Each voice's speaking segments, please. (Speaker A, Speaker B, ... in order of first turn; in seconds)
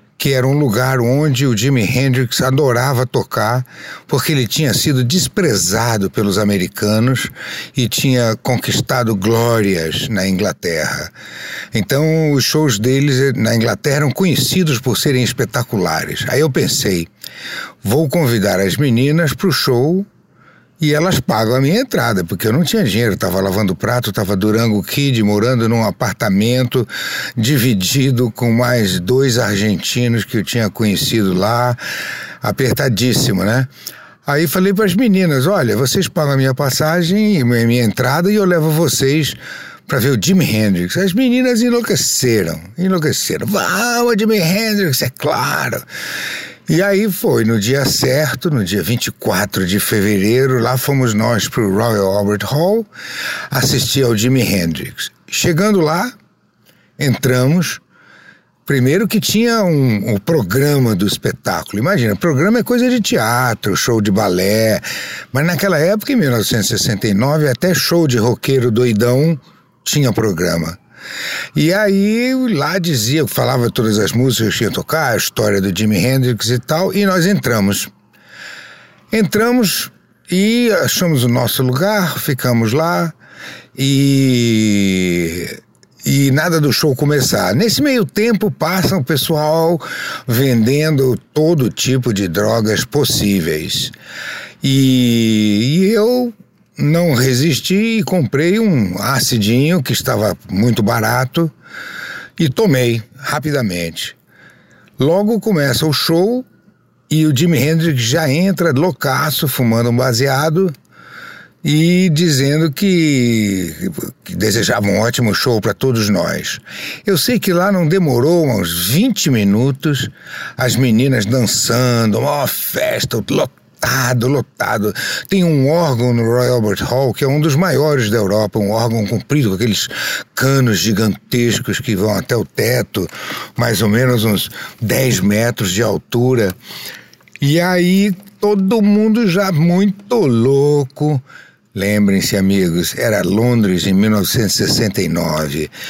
Speaker A: 0.2-11.1, 11.7-17.1, 17.8-20.1, 20.8-31.8, 32.4-33.7, 34.3-45.9, 46.7-52.9, 53.5-56.1, 57.0-57.8, 58.7-70.8, 71.6-77.9, 79.1-83.1, 83.8-93.9, 94.6-101.5, 102.4-104.2, 105.0-106.5, 107.1-110.7, 111.6-136.6, 137.4-141.2, 141.8-145.7